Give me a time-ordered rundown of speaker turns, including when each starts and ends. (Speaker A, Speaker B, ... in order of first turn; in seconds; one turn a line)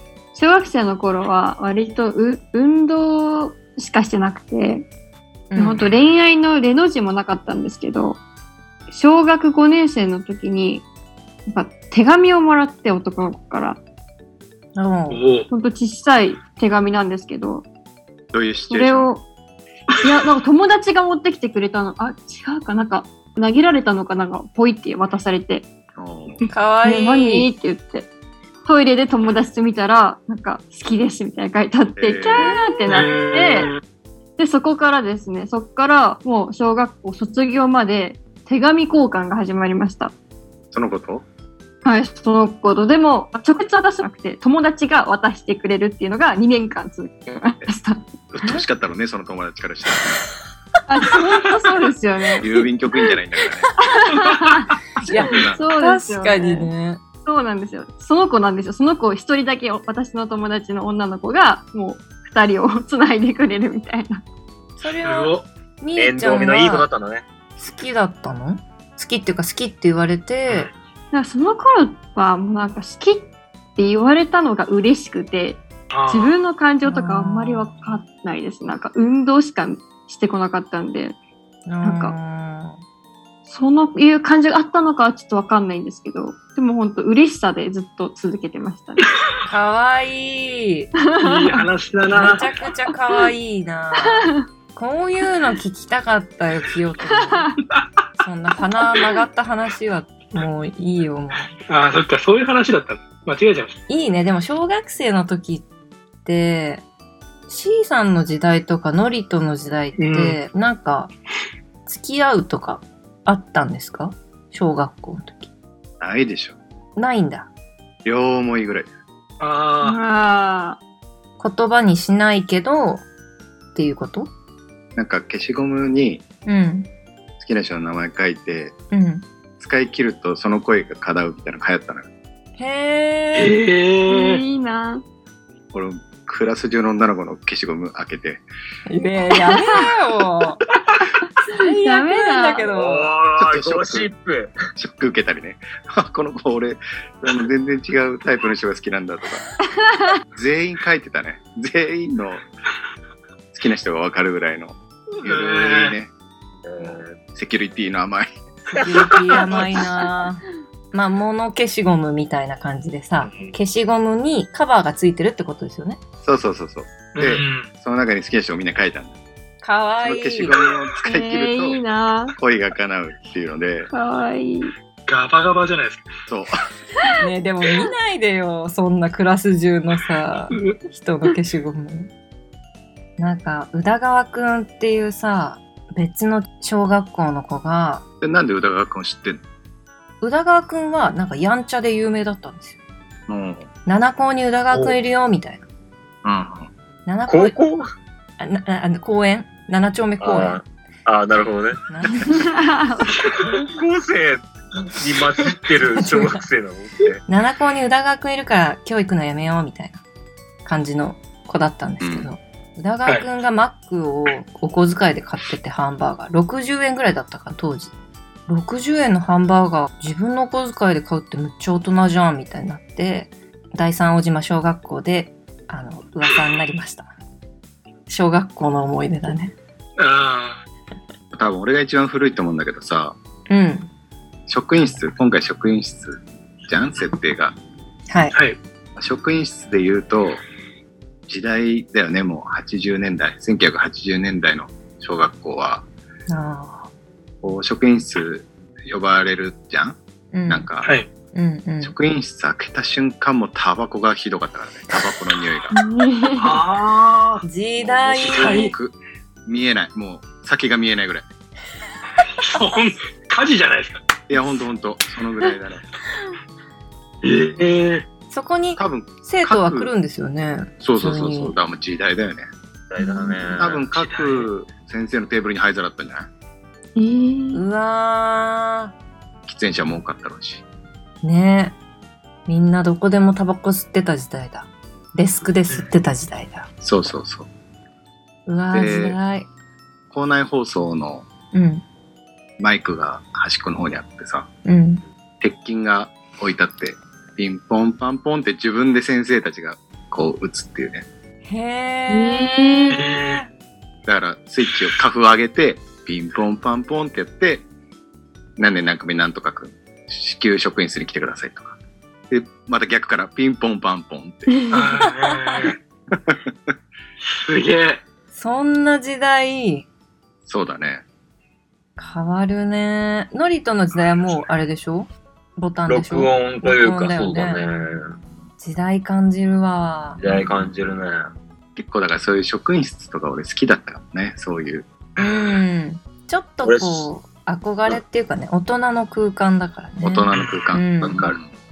Speaker A: 0.3-4.8
Speaker B: 5.5-5.9
Speaker A: 5.6-8.2
Speaker A: 8.9-10.8
Speaker A: 11.5-13.8
Speaker B: 14.8-15.2
Speaker C: 15.1-15.5
Speaker A: 15.5-17.6
Speaker D: 18.3-19.1
Speaker A: 18.7-19.2
Speaker A: 20.0-25.6
Speaker D: 25.9-26.4
Speaker B: 26.5-27.5
Speaker A: 26.8-28.1
Speaker A: 28.6-33.7
Speaker D: 32.0-32.6
Speaker B: 32.4-32.7
Speaker C: 32.9-33.8
Speaker A: 34.4-40.1
Speaker D: 40.7-41.2
Speaker A: 41.8-48.1
Speaker D: 48.3-50.3
Speaker A: 50.9-53.1
Speaker D: 52.4-53.8
Speaker A: 53.8-56.7
Speaker C: 54.1-54.6
Speaker B: 55.0-57.0
Speaker D: 55.0-55.6
Speaker A: 57.2-64.2
Speaker B: 64.8-66.9
Speaker C: 65.0-65.5
Speaker E: 66.0-67.2
Speaker B: 67.6-70.7
Speaker A: 71.1-81.2
Speaker C: 75.9-76.3
Speaker B: 76.8-78.0
Speaker B: 81.7-82.8
Speaker A: 81.8-82.1
Speaker A: 83.5-89.1
Speaker B: 89.4-90.9
Speaker A: 91.1-91.7
Speaker C: 91.2-92.5
Speaker B: 92.1-97.5
Speaker A: 94.0-94.5
Speaker A: 97.0-97.6
Speaker B: 98.2-101.5
Speaker C: 101.7-103.8
Speaker B: 103.9-105.7
Speaker B: 106.2-106.8
Speaker B: 107.5-111.1
Speaker C: 110.0-110.4
Speaker B: 111.8-115.5
Speaker D: 116.0-116.5
Speaker B: 117.0-117.5
Speaker D: 118.0-118.9
Speaker C: 119.4-120.0
Speaker A: 119.8-120.8
Speaker B: 121.4-123.0
Speaker B: 123.7-124.3
Speaker D: 124.9-126.2
Speaker B: 126.5-126.9
Speaker D: 127.4-128.7
Speaker B: 128.9-129.2
Speaker D: 129.6-132.1
Speaker B: 132.6-133.6
Speaker C: 133.3-134.4
Speaker A: 134.1-135.0
Speaker D: 135.7-138.4
Speaker B: 138.9-140.6
Speaker B: 141.5-143.1
Speaker A: 141.7-142.6
Speaker E: 142.6-144.5
Speaker D: 143.4-144.1
Speaker D: 144.7-149.4
Speaker D: 150.3-152.4
Speaker D: 153.5-156.1
Speaker C: 155.2-155.9
Speaker E: 156.6-157.2
Speaker D: 156.8-158.3
Speaker B: 158.8-166.0
Speaker E: 163.2-163.5
Speaker D: 166.2-169.1
Speaker C: 167.1-167.7
Speaker B: 169.6-170.5
Speaker D: 170.0-171.8
Speaker A: 171.0-172.3
Speaker D: 172.3-173.9
Speaker A: 173.9-174.7
Speaker C: 175.1-176.0
Speaker D: 176.3-176.5
Speaker B: 177.2-182.1
Speaker C: 180.5-180.8
Speaker B: 183.2-188.0
Speaker D: 188.2-189.4
Speaker B: 190.2-192.8
Speaker D: 193.3-193.7
Speaker B: 193.8-195.6
Speaker D: 196.2-196.7
Speaker B: 197.1-197.6
Speaker E: 197.3-197.9
Speaker B: 198.4-200.6
Speaker E: 200.2-201.8
Speaker B: 201.9-202.4
Speaker A: 202.3-203.1
Speaker E: 203.2-207.2
Speaker B: 206.0-206.4
Speaker B: 207.3-210.0
Speaker B: 210.6-217.9
Speaker D: 212.0-212.3
Speaker B: 218.5-227.1
Speaker B: 228.1-229.5
Speaker C: 230.0-230.6
Speaker D: 231.3-233.2
Speaker B: 233.5-233.9
Speaker D: 234.5-237.6
Speaker B: 238.1-238.3
Speaker D: 238.9-240.4
Speaker D: 241.3-245.8
Speaker B: 246.3-246.9
Speaker D: 247.4-250.9
Speaker B: 250.3-250.7
Speaker C: 250.8-251.1
Speaker B: 251.3-251.9
Speaker D: 251.8-255.8
Speaker A: 255.7-256.6
Speaker C: 256.4-257.4
Speaker B: 257.4-258.7
Speaker D: 257.8-258.9
Speaker C: 258.2-258.7
Speaker D: 259.4-261.2
Speaker C: 262.4-264.0
Speaker D: 264.3-265.8
Speaker C: 267.2-268.0
Speaker B: 268.3-271.5
Speaker D: 268.8-269.9
Speaker D: 270.8-272.5
Speaker E: 272.9-273.9
Speaker A: 273.0-273.5
Speaker D: 273.6-276.3
Speaker C: 273.9-274.5
Speaker A: 276.9-277.6
Speaker B: 277.5-278.9
Speaker D: 279.4-280.6
Speaker B: 281.2-281.8
Speaker B: 282.5-286.7
Speaker D: 286.8-287.5
Speaker B: 288.4-289.5
Speaker D: 288.7-289.2
Speaker D: 290.1-291.3
Speaker B: 291.5-291.8
Speaker D: 292.6-294.5
Speaker B: 294.6-295.0
Speaker D: 295.4-301.1
Speaker B: 301.4-303.4
Speaker A: 302.1-303.1
Speaker C: 302.9-303.4
Speaker D: 304.1-307.6
Speaker D: 308.6-311.8
Speaker D: 312.3-314.6
Speaker A: 314.6-315.1
Speaker C: 314.7-315.8
Speaker B: 315.2-315.7
Speaker D: 316.1-316.4
Speaker C: 317.3-318.0
Speaker B: 318.3-319.9
Speaker D: 320.4-321.0
Speaker B: 322.0-327.6
Speaker E: 325.9-328.1
Speaker B: 328.6-330.2
Speaker E: 330.2-331.3
Speaker D: 331.8-334.9
Speaker C: 335.2-335.6
Speaker B: 335.2-341.2
Speaker E: 336.6-337.1
Speaker D: 340.0-341.5
Speaker C: 340.3-340.7